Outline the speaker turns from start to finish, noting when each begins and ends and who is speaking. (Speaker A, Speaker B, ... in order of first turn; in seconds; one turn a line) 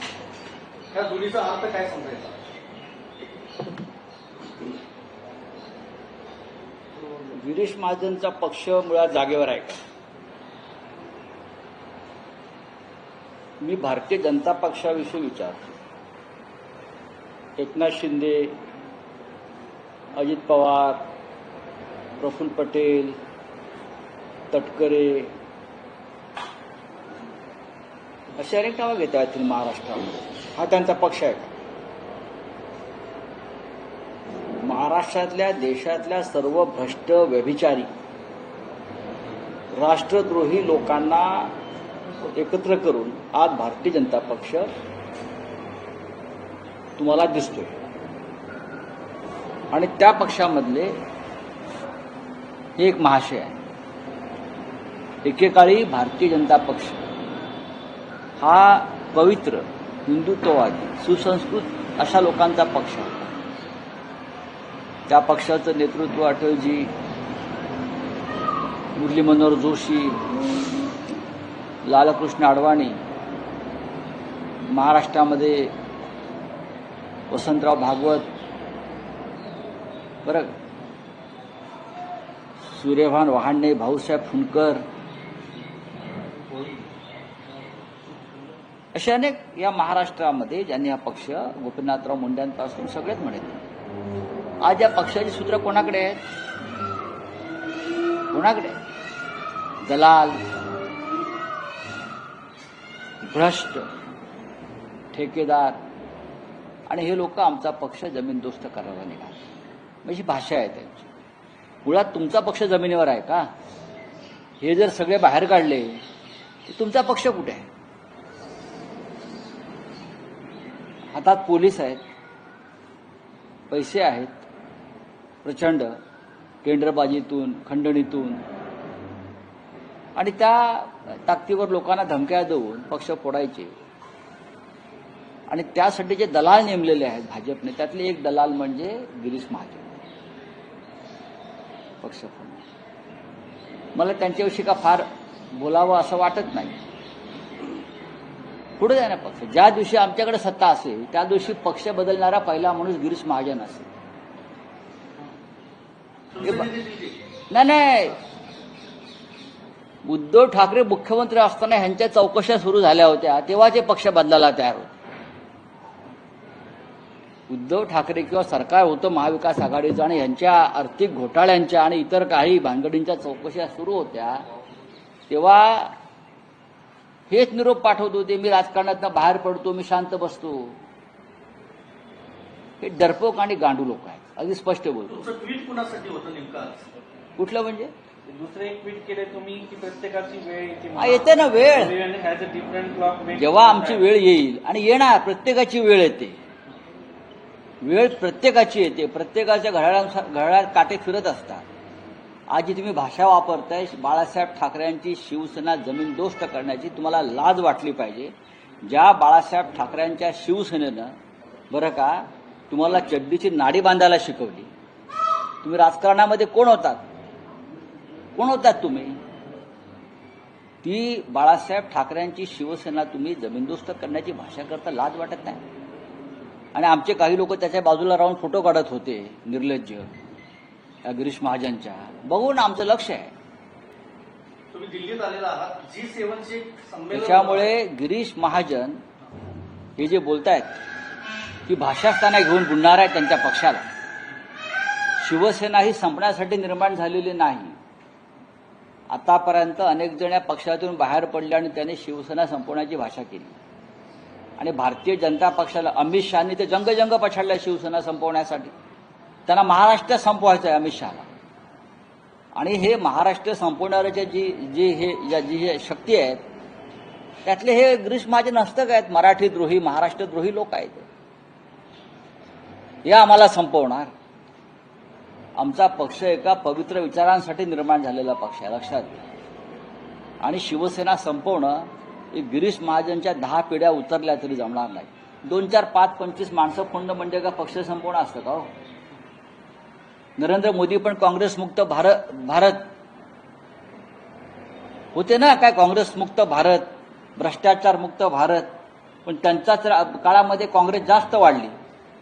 Speaker A: 0.9-2.3
Speaker B: 7.3-9.8
Speaker B: 13.6-15.7
Speaker B: 17.6-18.6
Speaker B: 20.1-21.1
Speaker B: 22.2-23.2
Speaker B: 24.5-25.3
Speaker B: 28.4-31.5
Speaker B: 34.6-37.9
Speaker B: 39.7-41.5
Speaker B: 42.3-44.7
Speaker B: 47.0-47.8
Speaker B: 49.7-51.0
Speaker B: 52.8-53.6
Speaker B: 55.2-57.0
Speaker B: 58.4-63.4
Speaker B: 65.1-66.9
Speaker B: 69.0-70.2
Speaker B: 71.8-73.0
Speaker B: 74.7-75.7
Speaker B: 77.3-78.3
Speaker B: 80.2-80.5
Speaker B: 82.6-84.8
Speaker A: 86.5-86.8
Speaker B: 88.9-93.6
Speaker B: 94.6-96.2
Speaker B: 98.3-98.8
Speaker B: 99.8-100.4
Speaker B: 103.2-103.9
Speaker B: 105.1-105.8
Speaker B: 106.9-109.3
Speaker B: 110.0-111.1
Speaker B: 111.8-113.5
Speaker B: 114.6-116.0
Speaker B: 116.7-117.7
Speaker B: 121.1-122.0
Speaker B: 123.7-124.4
Speaker B: 125.4-126.0
Speaker B: 126.6-128.4
Speaker B: 130.2-133.7
Speaker B: 135.5-140.0
Speaker B: 142.0-142.6
Speaker B: 143.9-146.8
Speaker B: 148.8-153.9
Speaker A: 156.3-157.2
Speaker B: 156.4-156.7
Speaker B: 157.5-158.2
Speaker B: 160.0-164.9
Speaker B: 167.5-174.4
Speaker B: 175.3-175.9
Speaker B: 177.3-180.8
Speaker B: 182.8-185.2
Speaker A: 185.1-186.8
Speaker B: 187.4-187.9
Speaker C: 188.3-194.0
Speaker B: 190.9-191.9
Speaker B: 193.3-196.4
Speaker B: 197.8-201.6
Speaker B: 202.5-211.2
Speaker B: 211.7-214.7
Speaker B: 215.6-217.1
Speaker B: 218.3-219.2
Speaker B: 220.8-225.6
Speaker B: 226.7-230.1
Speaker B: 231.0-233.3
Speaker A: 234.7-237.7
Speaker B: 237.1-239.0
Speaker B: 240.0-240.8
Speaker B: 241.7-243.9
Speaker B: 245.2-247.8
Speaker B: 249.1-253.5
Speaker B: 254.6-258.7
Speaker B: 259.5-261.3
Speaker B: 262.5-266.4
Speaker B: 267.4-271.1
Speaker B: 273.0-274.1
Speaker B: 275.6-279.2
Speaker B: 280.4-288.7
Speaker B: 290.4-292.9
Speaker B: 295.1-298.7
Speaker B: 299.2-301.7